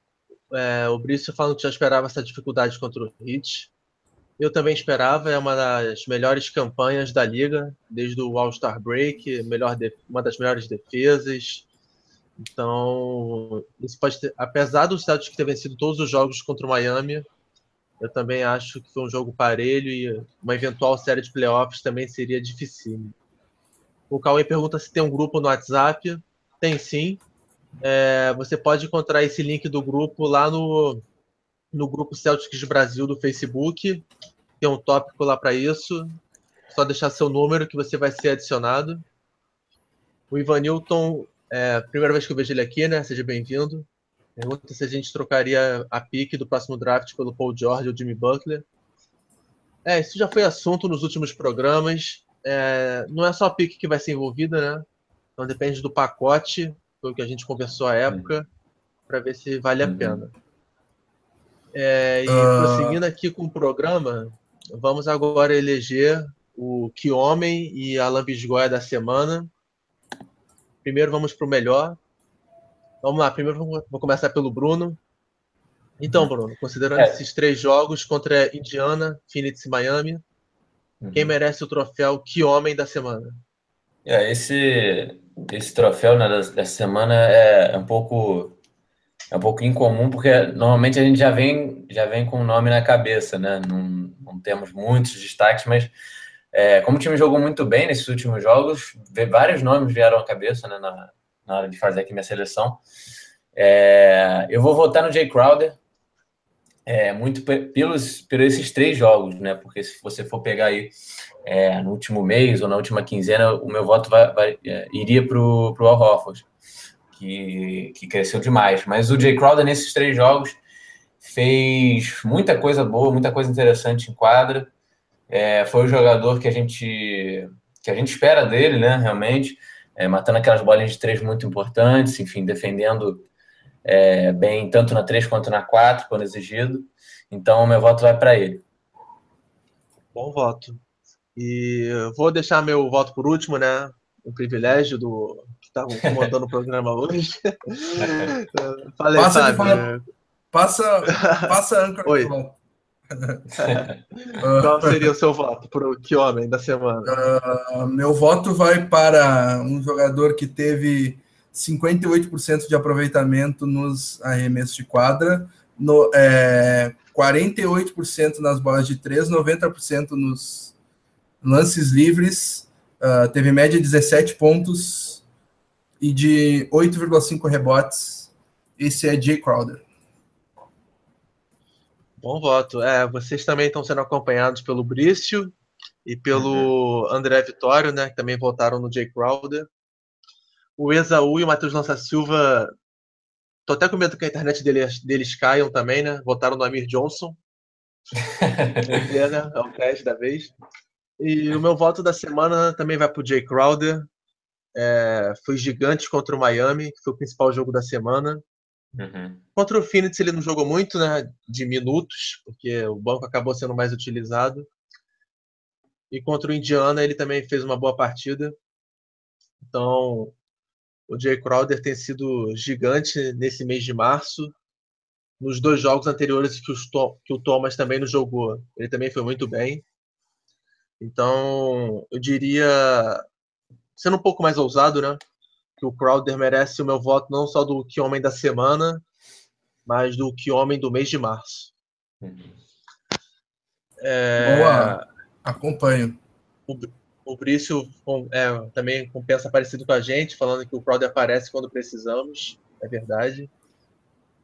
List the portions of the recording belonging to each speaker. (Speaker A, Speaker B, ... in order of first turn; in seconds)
Speaker A: 0.5-3.7, 4.4-11.7, 12.4-17.3, 18.0-23.1, 24.1-27.2, 27.8-31.0, 31.7-34.1, 34.6-36.2, 36.7-39.0, 40.3-48.6, 49.9-54.9, 55.4-58.5, 59.1-60.3, 61.7-69.5, 70.8-72.0, 73.0-75.0, 76.0-80.2, 81.1-83.4, 140.2-140.8, 141.4-150.0, 151.1-151.5, 152.1-152.3, 153.6-157.1, 182.2-189.7, 190.8-192.7, 193.7-197.4, 198.8-200.5, 201.2-204.1, 204.8-208.4, 209.6-214.7, 216.1-218.6, 219.7-220.3, 221.1-224.5, 225.4-229.8, 231.0-233.2, 234.0-235.2, 235.8-239.0, 239.9-241.7, 244.0-245.0, 246.7-253.5
Speaker B: 59.8-60.2, 81.0-81.3, 84.0-88.6, 89.3-95.9, 96.5-102.8, 103.5-105.8, 106.9-110.9, 111.5-116.5, 117.1-120.6, 121.2-124.7, 125.3-133.3, 133.8-138.6, 148.0-148.3, 153.6-154.0, 186.3-186.7, 198.4-199.0, 209.0-209.4, 242.2-242.6
Speaker C: 62.3-63.0, 149.2-149.8, 150.5-152.6, 153.2-153.4, 154.4-155.1, 157.1-170.7, 171.4-175.2, 176.0-179.8, 244.4-246.2